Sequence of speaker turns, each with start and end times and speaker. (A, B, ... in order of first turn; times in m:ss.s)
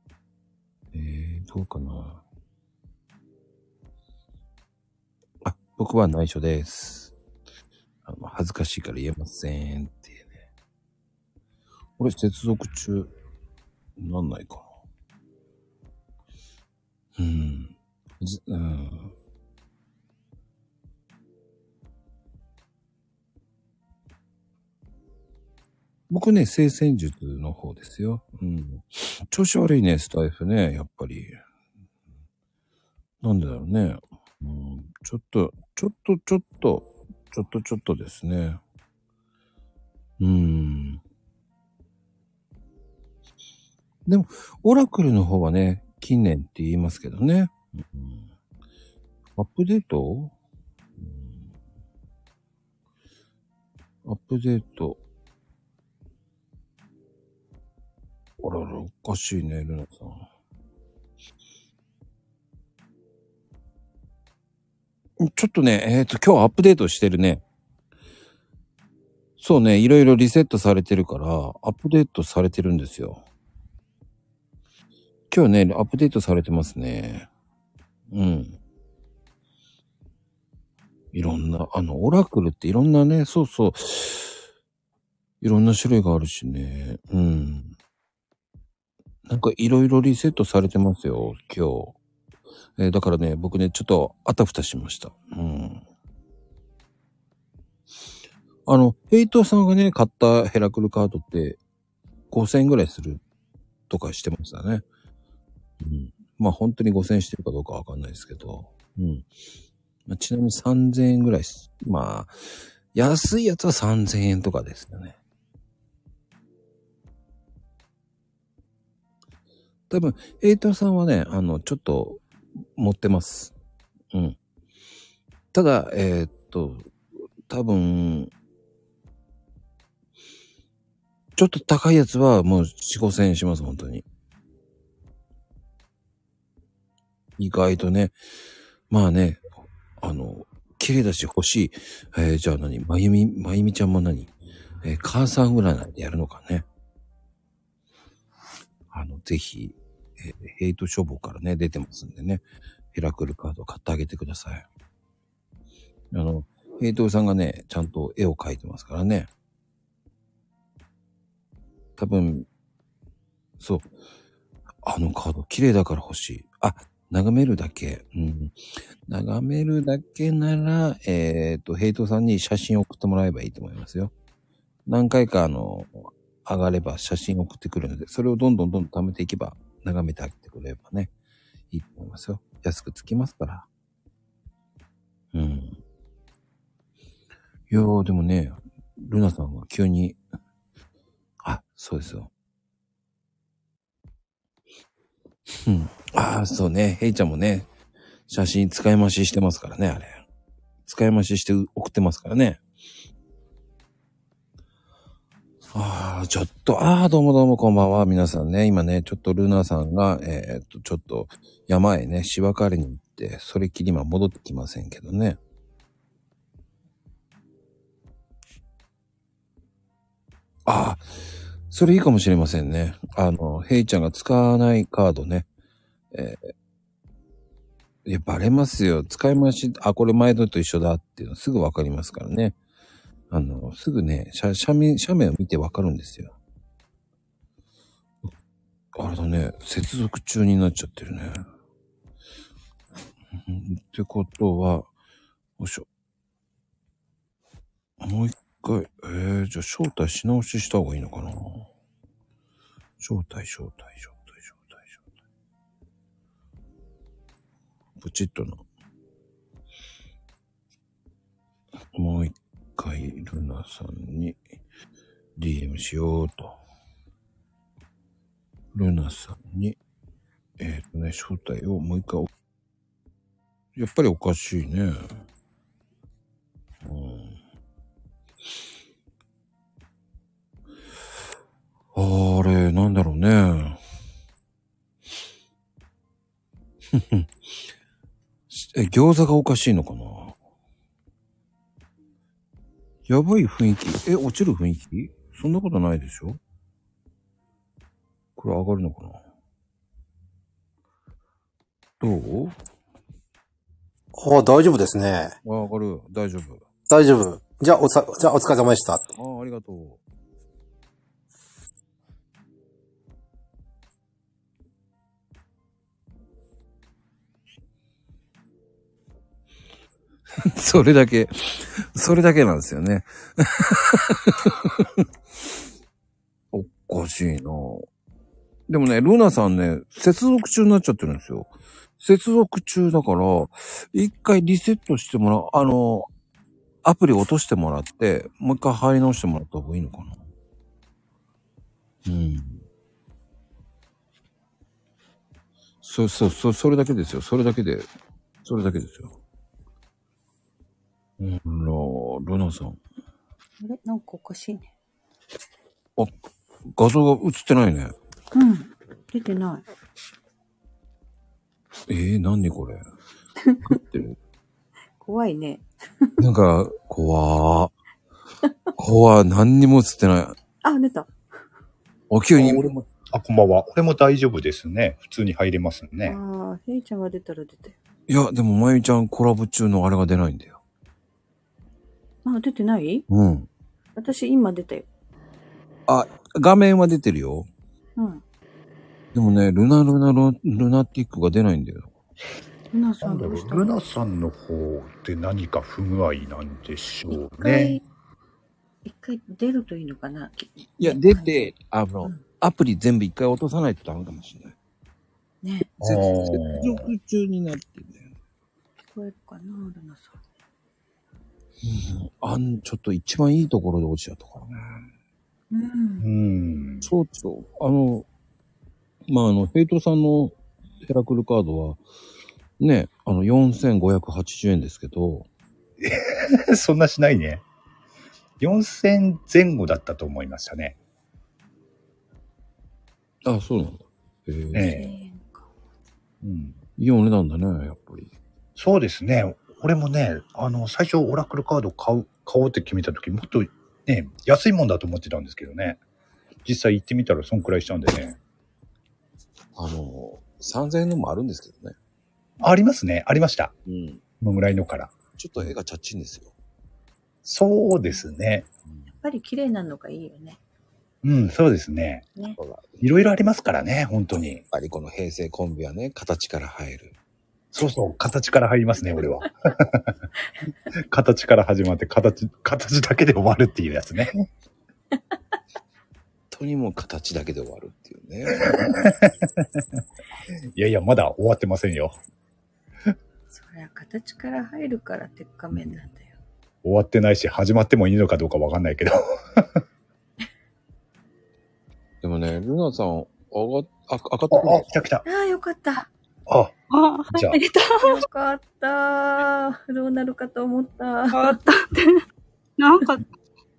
0:00.9-0:02.2 A
0:05.4-0:07.1 A
0:08.0-0:10.4 A
0:12.0-0:13.1 A
0:14.0-0:14.7 A
0:17.2-0:19.1 A
0:26.1-0:31.4 A
0:33.2-0:38.6 A
0:40.2-0:41.0 A
0:44.0-0:48.3 A
0:49.4-0:50.3 A
0:51.0-0:51.5 A
0:54.0-0:55.0 A
0:58.4-1:00.2 A
1:05.2-1:07.4 A
1:09.4-1:13.2 A
1:15.3-1:17.3 A
1:18.1-1:18.6 A
1:21.1-1:24.4 A
1:25.4-1:27.7 A
1:29.3-1:31.9 A
1:32.8-1:35.8 A
1:38.6-1:41.6 A
1:42.3-1:43.2 A
1:43.9-1:44.8 A
1:45.8-1:49.3 A
1:50.1-1:55.2 A
1:59.9-2:03.5 A
2:05.5-2:06.9 A
2:07.5-2:08.3 A
2:11.4-2:14.0 A
2:17.4-2:18.1 A
2:18.9-2:19.4 A
2:20.0-2:24.3 A
2:24.8-2:26.6 A
2:28.9-2:34.6 A
2:36.1-2:39.3 A
2:42.0-2:42.5 A
2:43.6-2:43.9 A
2:44.8-2:48.5 A
2:49.1-2:54.1 A
2:54.9-3:01.1 A
3:01.7-3:03.7 A
3:05.3-3:05.8 A
3:07.7-3:10.2 A
3:11.4-3:12.3 A
3:15.6-3:17.7 A
3:18.3-3:20.2 A
3:20.8-3:22.6 A
3:25.7-3:35.4 A
3:40.6-3:41.0 A
3:41.7-3:45.4 A
3:46.1-3:46.5 A
3:48.0-3:52.6 A
3:53.3-3:56.3 A
3:58.9-4:01.4 A
4:03.3-4:04.9 A
4:05.6-4:05.8 A
4:08.0-4:11.7 A
4:13.0-4:15.0 A
4:18.0-4:18.6 A
4:21.9-4:24.4 A
4:25.4-4:26.6 A
4:28.7-4:29.8 A
4:30.6-4:32.3 A
4:33.7-4:35.0 A
4:36.8-4:37.4 A
4:41.9-4:43.8 A
4:46.9-4:47.3 A
4:48.5-4:50.3 A
4:53.1-4:56.4 A
4:58.4-4:59.2 A
5:02.0-5:02.5 A
5:04.1-5:05.3 B
5:05.4-5:06.6 A
5:06.9-5:09.0 B
5:09.1-5:10.0 A
5:20.4-5:24.9 A
5:26.5-5:27.8 A
5:28.7-5:36.1 A
5:36.8-5:40.2 A
5:42.0-5:42.6 A
5:45.8-5:47.9 A
5:48.4-5:49.2 A
5:51.2-5:52.8 A
5:53.6-5:54.7 C
5:56.6-5:57.9 A
5:58.3-5:59.6 C
6:01.9-6:02.8 A
6:03.5-6:03.8 C
6:03.6-6:04.2 A
6:05.0-6:06.2 C
6:06.2-6:07.7 A
6:08.8-6:10.4 A
6:10.6-6:11.1 C
6:12.1-6:12.8 A
6:12.3-6:16.2 D
6:16.0-6:17.8 C
6:18.1-6:20.6 A
6:22.2-6:23.0 C
6:23.1-6:23.5 A
6:24.0-6:24.9 C
6:25.9-6:27.5 A
6:28.0-6:28.2 C
6:29.1-6:31.9 A
6:32.7-6:33.7 C
6:33.0-6:37.8 D
6:37.1-6:37.8 C
6:38.8-6:41.5 C
6:40.8-6:44.5 A
6:45.4-6:45.8 C
6:45.8-6:48.1 A
6:45.8-6:46.8 D
6:48.9-6:50.2 C
6:51.6-6:54.8 A
6:55.5-6:56.1 C
6:56.0-6:56.9 D
6:56.8-6:58.1 A
6:59.0-7:01.8 A
7:02.6-7:05.3 A
7:05.8-7:07.4 D
7:08.4-7:10.8 D
7:13.2-7:14.8 A
7:14.5-7:14.9 D
7:14.6-7:15.5 C
7:16.2-7:16.6 D
7:16.8-7:18.1 A
7:18.6-7:25.8 D
7:26.4-7:28.2 D
7:29.6-7:31.8 A
7:32.4-7:33.5 D
7:33.6-7:34.0 A
7:34.2-7:35.0 D
7:35.2-7:36.3 A
7:37.2-7:38.5 D
7:39.0-7:40.4 C
7:41.0-7:42.0 D
7:42.4-7:43.0 A
7:42.8-7:44.4 D
7:44.5-7:46.9 A
7:47.5-7:49.9 D
7:50.9-7:54.3 D
7:56.3-7:58.9 A
7:58.5-7:59.4 D
8:00.5-8:02.0 D
8:03.3-8:06.2 C
8:06.6-8:09.5 D
8:12.0-8:14.7 A
8:14.3-8:15.0 D
8:15.0-8:15.9 C
8:16.3-8:16.5 D
8:16.7-8:17.9 E
8:17.1-8:17.4 D
8:17.8-8:21.4 C
8:21.1-8:22.0 E
8:22.6-8:23.0 E